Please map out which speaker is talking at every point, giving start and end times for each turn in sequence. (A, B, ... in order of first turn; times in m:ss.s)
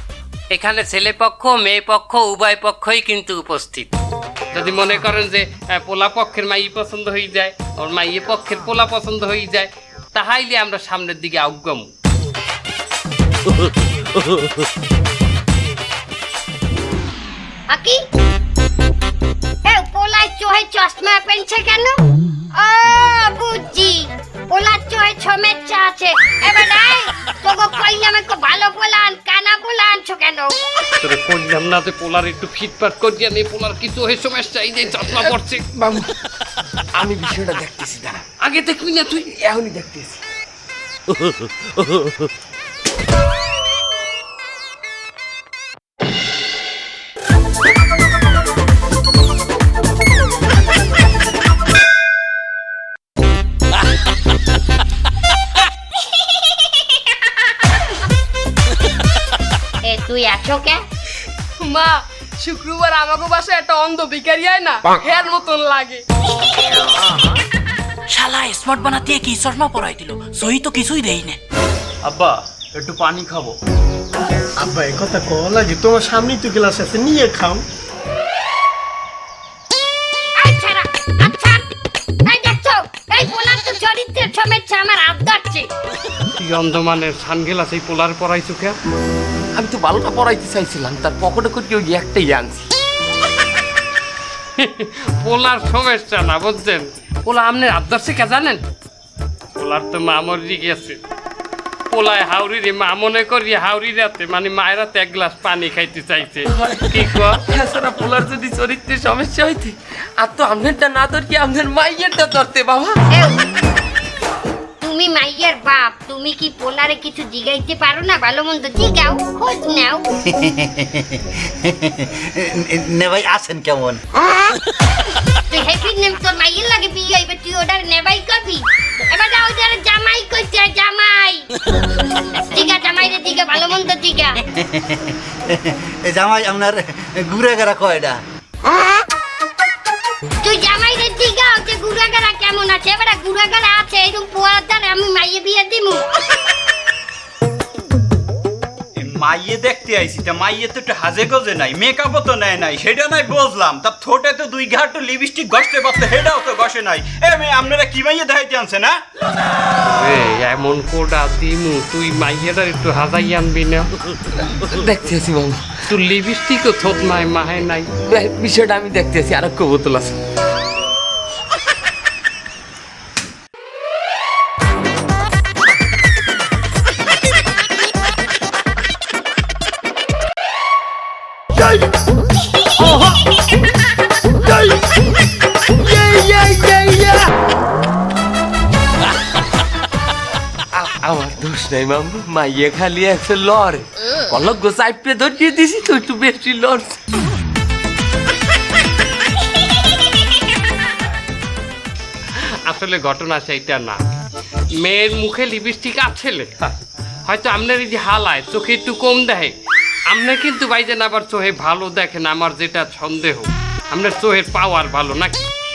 0:00.5-0:03.9 A
0:04.5-0:11.9 A
0:17.7-0:18.0 B
0:19.6-0:22.0 B
0:22.6-0:30.6 B
0:31.0-0:35.6 A
0:35.8-0:36.0 C
0:37.0-0:38.6 C
0:38.7-0:39.2 A
0:39.4-0:40.2 C
0:59.8-1:00.8 B
1:01.6-1:06.0 D
1:08.1-1:11.4 E
1:14.7-1:17.6 F
1:20.4-1:21.7 B
1:22.2-1:25.7 B
1:26.4-1:28.8 A
1:29.6-1:32.7 C
1:34.6-1:38.6 A
1:39.6-1:41.0 A
1:41.9-1:47.4 A
1:46.5-1:53.0 C
1:53.1-1:53.5 B
1:54.8-2:00.1 B
2:00.4-2:02.0 G
2:02.6-2:04.0 G
2:05.5-2:11.5 B
2:12.4-2:14.4 B
2:14.7-2:15.0 G
2:16.0-2:18.2 G
2:20.4-2:26.1 B
2:29.0-2:39.0 H
2:39.8-2:43.9 A
2:44.6-2:45.6 C
2:45.9-2:47.9 A
2:48.1-2:50.2 C
3:06.0-3:07.2 C
3:10.7-3:17.0 C
3:22.7-3:24.0 A
3:24.8-3:29.5 A
3:30.1-3:35.5 A